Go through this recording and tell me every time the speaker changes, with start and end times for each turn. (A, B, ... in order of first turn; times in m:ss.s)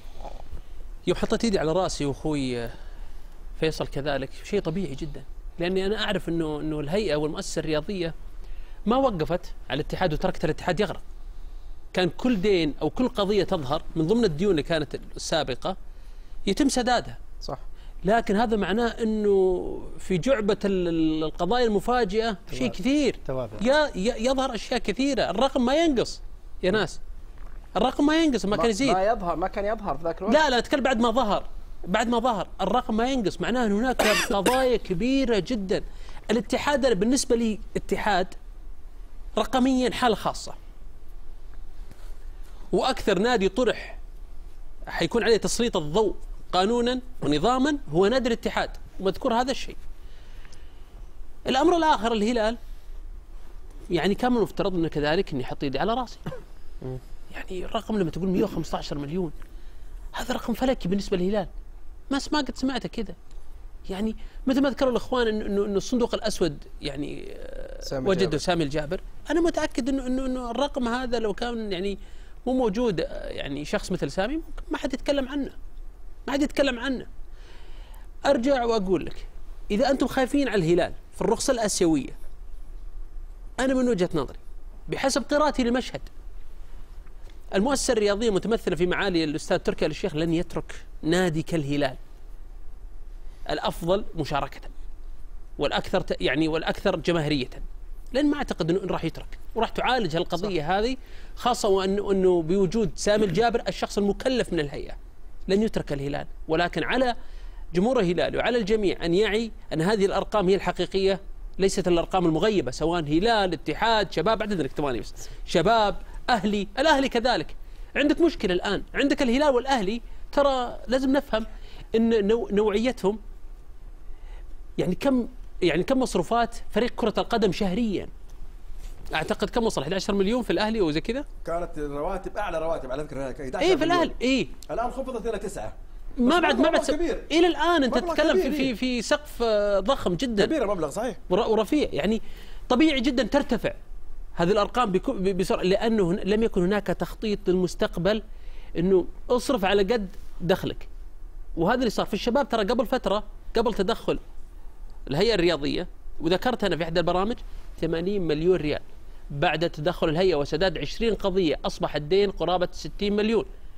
0:01.1-0:02.8 A
0:03.6-0:08.1 A
0:08.9-0:11.0 A
0:11.9-0:15.8 A
0:16.5-0:17.2 A
0:18.0-0:27.0 A
0:27.8-0:29.0 A
0:28.5-0:30.4 B
0:30.3-0:38.4 A
0:39.4-0:40.6 A
0:42.7-0:44.0 A
0:44.9-0:49.8 A
0:51.5-0:52.6 A
0:53.9-0:56.4 A
0:57.3-0:59.3 A
1:00.1-1:01.5 A
1:02.1-1:03.2 A
1:03.9-1:15.6 A
1:07.8-1:08.4 B
1:16.3-1:17.1 A
1:18.3-1:22.2 A
1:23.6-1:26.1 A
1:27.5-1:32.0 A
1:33.5-1:34.7 A
1:35.6-1:45.0 A
1:45.5-1:47.2 A
1:47.7-2:03.2 A
2:04.8-2:08.1 A
2:09.1-2:11.3 A
2:11.4-2:14.1 C
2:13.6-2:14.5 A
2:14.7-2:17.3 C
2:16.2-2:20.6 A
2:17.9-2:18.7 C
2:20.4-2:21.2 C
2:21.3-2:23.8 A
2:24.4-2:28.2 A
2:28.8-2:30.9 A
2:31.6-2:34.2 A
2:35.1-2:43.5 A